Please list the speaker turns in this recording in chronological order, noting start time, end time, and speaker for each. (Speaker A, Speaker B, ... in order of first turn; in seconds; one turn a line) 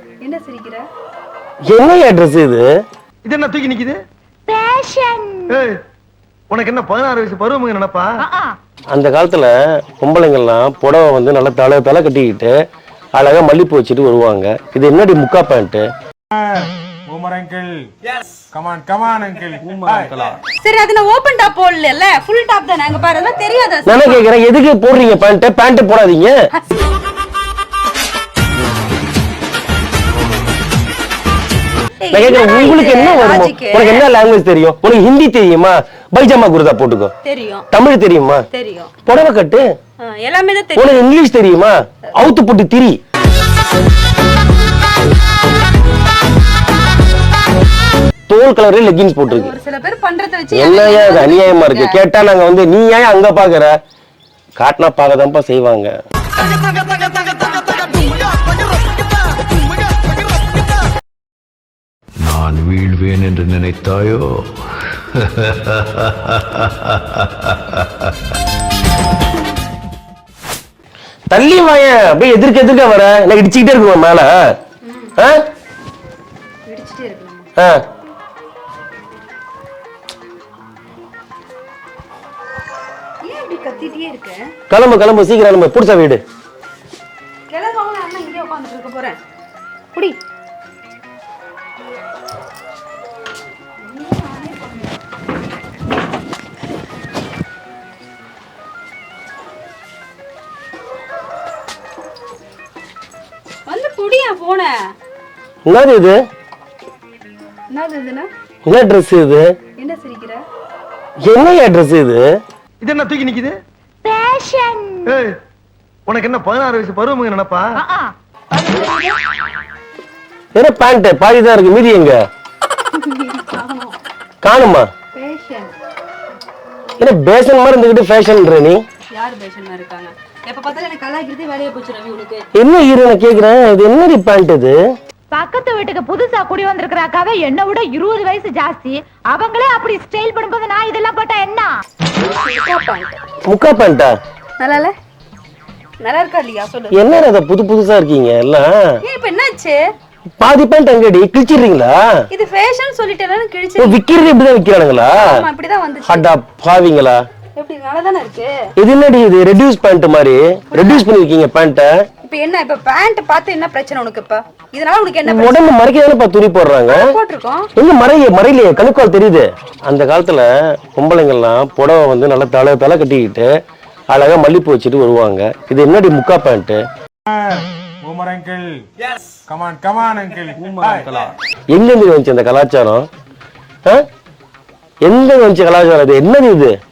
Speaker A: 0.2-0.8
Speaker B: 1.7-2.7
Speaker C: 3.2-4.0
Speaker D: 4.5-5.6
Speaker C: 5.5-5.8
Speaker C: 6.5-8.1
Speaker D: 8.2-8.5
Speaker B: 8.9-12.6
Speaker B: 13.2-15.8
Speaker E: 16.3-17.9
Speaker E: 18.5-20.2
Speaker A: 20.6-24.2
Speaker B: 23.9-26.4
Speaker A: 32.0-34.0
Speaker B: 32.1-37.1
Speaker A: 37.2-37.7
Speaker B: 37.7-38.4
Speaker A: 38.5-38.9
Speaker B: 39.1-39.6
Speaker A: 40.0-41.0
Speaker B: 40.8-43.0
Speaker B: 48.3-49.5
Speaker A: 49.3-52.0
Speaker B: 50.5-53.7
Speaker B: 54.6-55.9
Speaker F: 62.2-64.5
Speaker F: 65.2-65.5
Speaker B: 71.3-74.3
Speaker A: 74.8-75.2
Speaker A: 76.7-77.5
Speaker A: 83.2-84.5
Speaker B: 84.7-86.2
Speaker A: 87.5-89.2
Speaker A: 93.8-95.0
Speaker A: 103.7-104.7
Speaker B: 105.7-106.2
Speaker A: 107.7-108.3
Speaker B: 108.7-109.5
Speaker A: 109.8-110.4
Speaker B: 111.2-112.2
Speaker C: 112.8-113.5
Speaker D: 114.0-115.2
Speaker C: 115.1-115.4
Speaker C: 116.1-117.7
Speaker D: 117.8-118.1
Speaker A: 118.5-119.2
Speaker B: 120.5-122.2
Speaker A: 122.9-124.0
Speaker B: 124.4-124.9
Speaker A: 125.2-125.7
Speaker B: 127.0-128.8
Speaker A: 129.2-132.5
Speaker B: 132.6-134.8
Speaker D: 135.3-141.7
Speaker A: 142.2-143.2
Speaker B: 143.5-144.1
Speaker A: 144.6-144.9
Speaker A: 146.0-147.0
Speaker B: 146.9-148.7
Speaker A: 149.1-149.8
Speaker B: 150.4-152.0
Speaker A: 152.3-154.0
Speaker B: 153.8-155.4
Speaker A: 155.1-156.2
Speaker B: 156.1-157.2
Speaker A: 157.6-158.6
Speaker B: 158.8-161.9
Speaker A: 160.7-161.1
Speaker A: 162.2-165.6
Speaker B: 165.3-167.1
Speaker A: 166.9-167.7
Speaker B: 167.8-173.5
Speaker B: 174.1-176.8
Speaker E: 177.3-178.7
Speaker E: 179.5-181.3
Speaker B: 181.7-183.1
Speaker B: 185.0-186.8